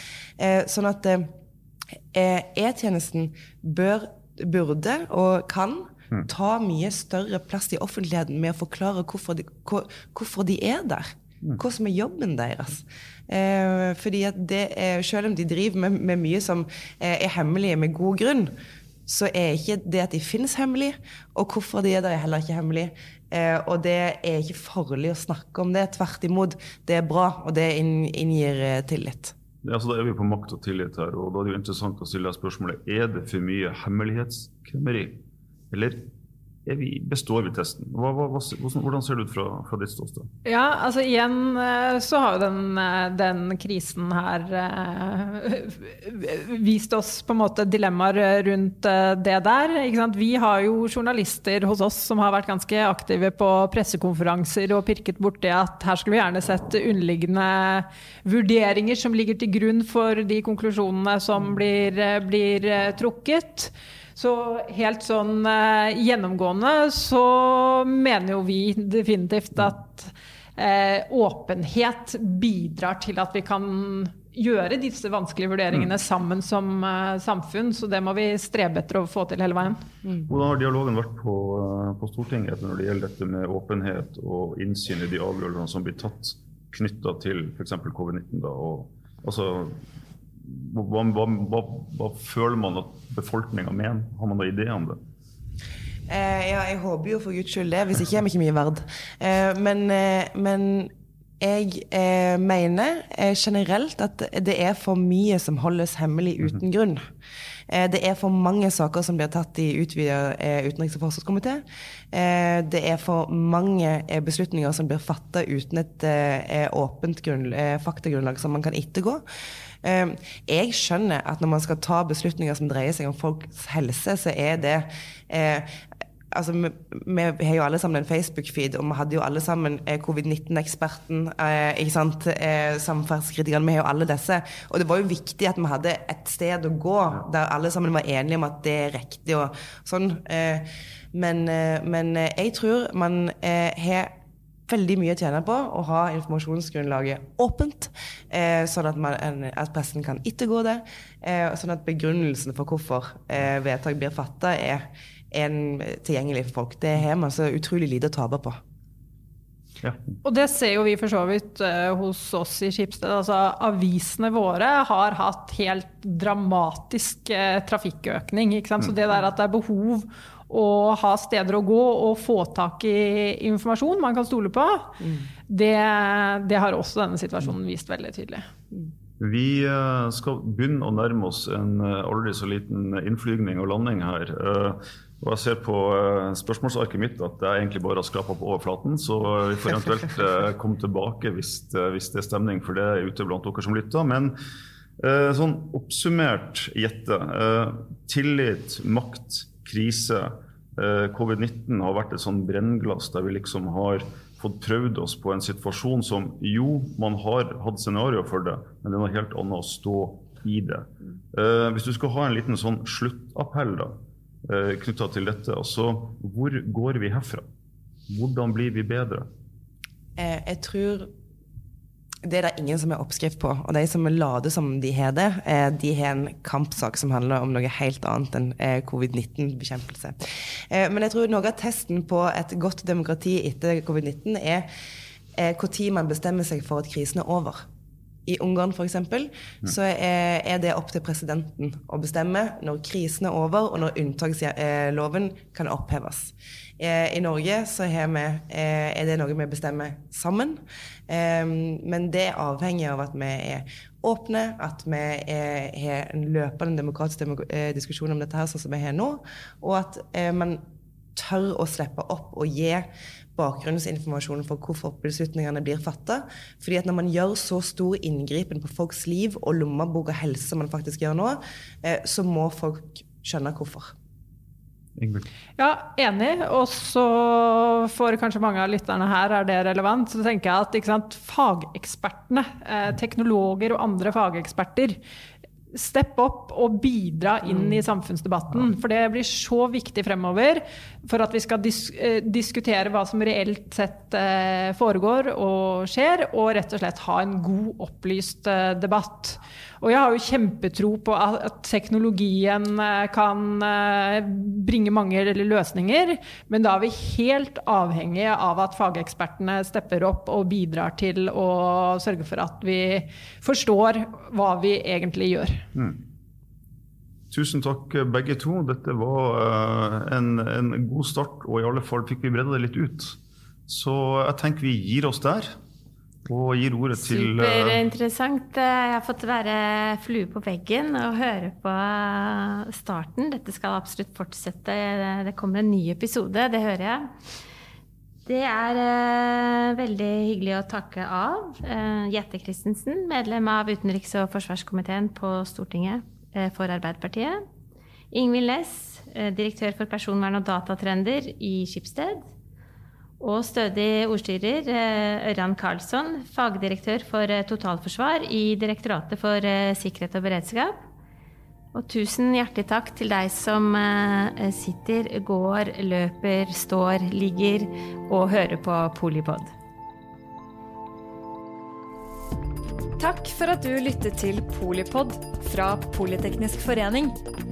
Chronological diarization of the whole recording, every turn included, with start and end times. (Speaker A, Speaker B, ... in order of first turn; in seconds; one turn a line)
Speaker A: 0.4-1.3
Speaker A: 2.1-18.5
Speaker A: 19.1-29.3
Speaker B: 29.6-36.1
Speaker B: 36.6-40.3
Speaker C: 40.4-79.8
Speaker B: 80.3-89.8
Speaker B: 90.4-95.0
Speaker A: 96.1-107.0
Speaker A: 107.7-119.2
Speaker A: 119.8-125.8
Speaker A: 126.3-144.1
Speaker A: 144.7-158.6
Speaker B: 159.8-160.1
Speaker C: 160.2-175.0
Speaker C: 175.5-178.5
Speaker B: 179.2-194.3
Speaker B: 195.0-217.5
Speaker B: 218.1-219.3
Speaker A: 220.2-221.1
Speaker A: 222.2-234.7
Speaker A: 235.3-237.6
Speaker A: 238.2-260.6
Speaker A: 261.1-273.9
Speaker B: 275.0-275.3
Speaker C: 275.6-285.0
Speaker C: 285.7-315.7
Speaker B: 315.7-316.0
Speaker B: 317.3-323.2
Speaker B: 323.7-325.5
Speaker B: 326.2-327.8
Speaker D: 327.0-337.1
Speaker D: 338.2-347.4
Speaker D: 348.1-352.3
Speaker D: 353.2-360.8
Speaker D: 361.7-369.5
Speaker E: 373.0-377.1